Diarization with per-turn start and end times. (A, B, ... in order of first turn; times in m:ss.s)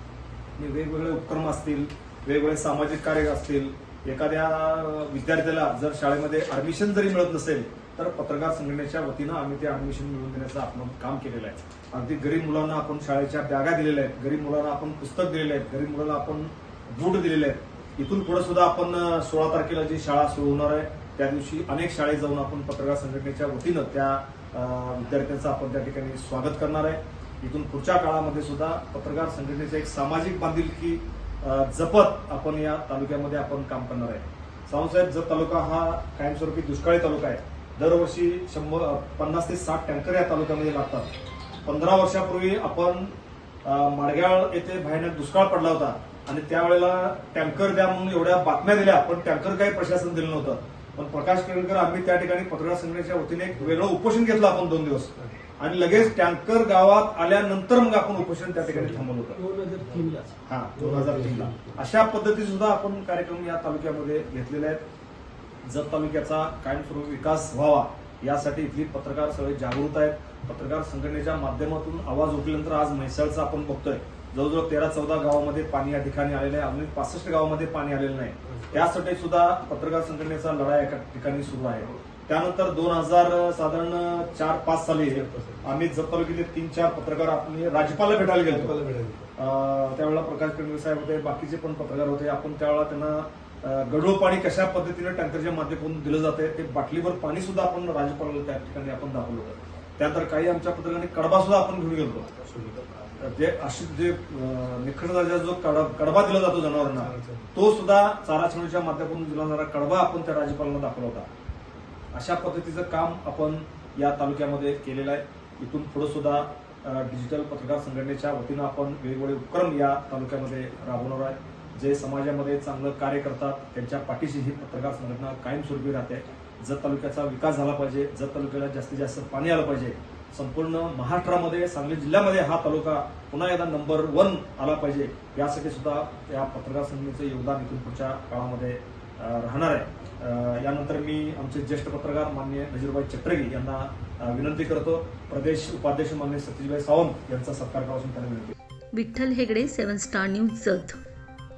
0:00.6-0:41.1 A
0:41.6-0:59.4 A
0:58.6-1:01.8 B
1:00.5-1:04.8 A
1:05.6-1:28.8 A
1:18.5-1:18.9 B
1:25.0-1:25.7 B
1:28.4-1:29.3 B
1:29.4-1:42.3 A
1:42.4-1:42.9 B
1:43.2-1:51.3 A
1:46.9-1:47.5 B
1:52.1-2:28.5 A
2:28.9-2:31.0 C